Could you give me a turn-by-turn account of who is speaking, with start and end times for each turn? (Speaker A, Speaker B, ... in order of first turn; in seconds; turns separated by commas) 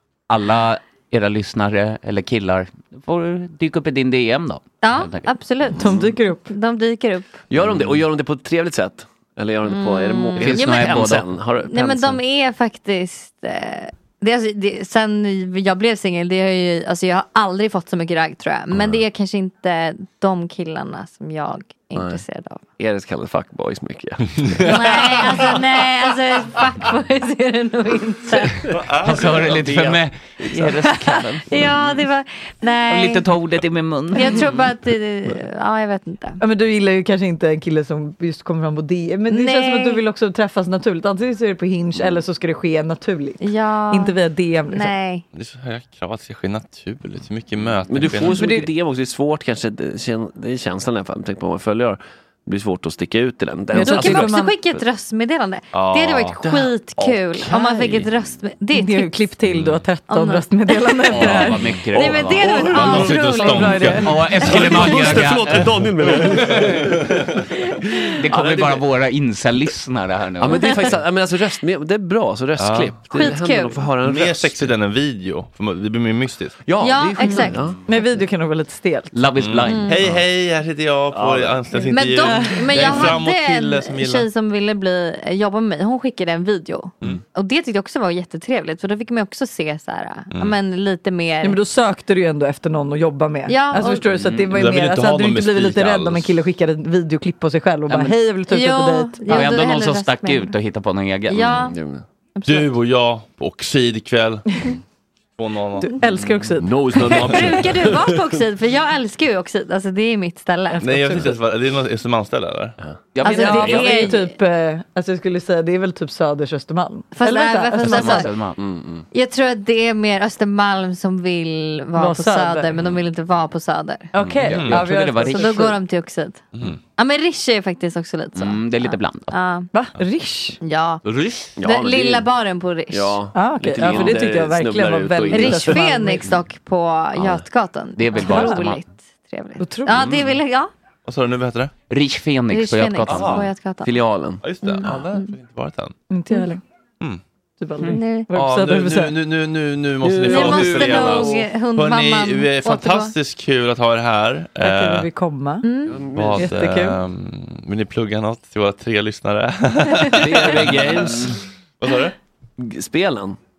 Speaker A: 0.3-5.3, Speaker B: 4.8-7.4, Speaker C: 5.8-6.1, Speaker D: 5.8-6.5, Speaker C: 7.5-12.2, Speaker B: 9.7-22.6, Speaker A: 10.4-11.3, Speaker C: 21.9-22.2, Speaker C: 22.8-25.6, Speaker B: 24.6-28.6, Speaker C: 28.5-30.9, Speaker E: 28.7-29.2, Speaker A: 29.0-31.4, Speaker B: 31.5-33.2, Speaker C: 31.5-31.8, Speaker A: 32.9-34.4, Speaker B: 34.1-36.4, Speaker D: 36.4-44.9, Speaker B: 39.3-40.0, Speaker B: 43.4-44.1, Speaker B: 44.7-45.2, Speaker E: 45.3-48.5, Speaker C: 47.9-54.8, Speaker D: 48.2-48.7, Speaker D: 53.7-54.5, Speaker B: 53.7-59.3, Speaker E: 55.7-56.4, Speaker C: 56.4-58.1, Speaker D: 58.7-61.6, Speaker E: 59.5-59.8, Speaker B: 60.1-64.9, Speaker A: 61.1-62.5, Speaker C: 61.7-63.1, Speaker D: 62.4-64.3, Speaker E: 62.7-64.2, Speaker A: 64.0-65.8, Speaker C: 64.3-67.3, Speaker A: 68.2-70.9, Speaker C: 68.2-68.9, Speaker C: 70.4-74.8, Speaker B: 70.6-70.9, Speaker E: 72.6-73.3, Speaker B: 73.1-73.8, Speaker E: 74.0-76.6, Speaker C: 76.6-78.2, Speaker B: 76.8-77.7, Speaker D: 77.2-79.1, Speaker A: 79.1-79.9, Speaker E: 79.4-84.3, Speaker B: 79.7-80.0, Speaker C: 81.1-81.9, Speaker B: 81.9-91.6, Speaker D: 91.4-99.7, Speaker B: 93.5-94.0, Speaker C: 93.8-94.5, Speaker E: 94.5-96.3, Speaker B: 98.5-100.6, Speaker A: 99.3-101.5, Speaker B: 101.3-101.8, Speaker C: 101.4-102.0, Speaker B: 102.3-102.7, Speaker E: 102.4-104.6, Speaker E: 105.4-106.4, Speaker D: 105.8-107.4, Speaker C: 106.5-108.4, Speaker B: 107.1-111.2, Speaker D: 110.7-111.4, Speaker E: 110.8-112.8, Speaker A: 113.1-114.1, Speaker B: 113.2-114.3, Speaker D: 113.2-118.3, Speaker B: 117.1-118.3, Speaker A: 117.8-118.6, Speaker C: 118.6-119.0, Speaker B: 119.1-124.1, Speaker D: 122.0-122.7, Speaker D: 124.1-125.7, Speaker C: 124.2-124.6, Speaker E: 124.5-124.9, Speaker A: 124.6-125.7, Speaker B: 124.8-126.4, Speaker E: 126.5-126.8, Speaker B: 127.0-129.7, Speaker A: 128.3-129.3, Speaker D: 129.7-130.6, Speaker B: 130.6-131.0, Speaker C: 131.6-132.3, Speaker B: 131.6-133.2, Speaker C: 132.9-136.4, Speaker D: 133.3-136.3, Speaker B: 135.3-140.7, Speaker A: 137.9-138.8, Speaker D: 138.2-138.6, Speaker D: 139.6-140.1, Speaker C: 139.9-140.3, Speaker E: 141.1-141.7, Speaker A: 141.9-143.4, Speaker B: 142.5-143.9, Speaker E: 143.1-143.4, Speaker C: 143.8-145.1, Speaker E: 144.4-145.9, Speaker B: 144.6-145.3, Speaker D: 146.1-146.6, Speaker D: 147.6-149.1, Speaker B: 147.8-148.3, Speaker E: 148.3-155.1, Speaker C: 150.0-151.5, Speaker B: 150.3-153.1, Speaker D: 154.6-155.7, Speaker B: 155.6-156.0, Speaker C: 155.8-156.6, Speaker E: 156.1-161.1, Speaker D: 156.4-157.0, Speaker C: 160.1-161.4, Speaker E: 161.8-162.2, Speaker C: 162.6-163.4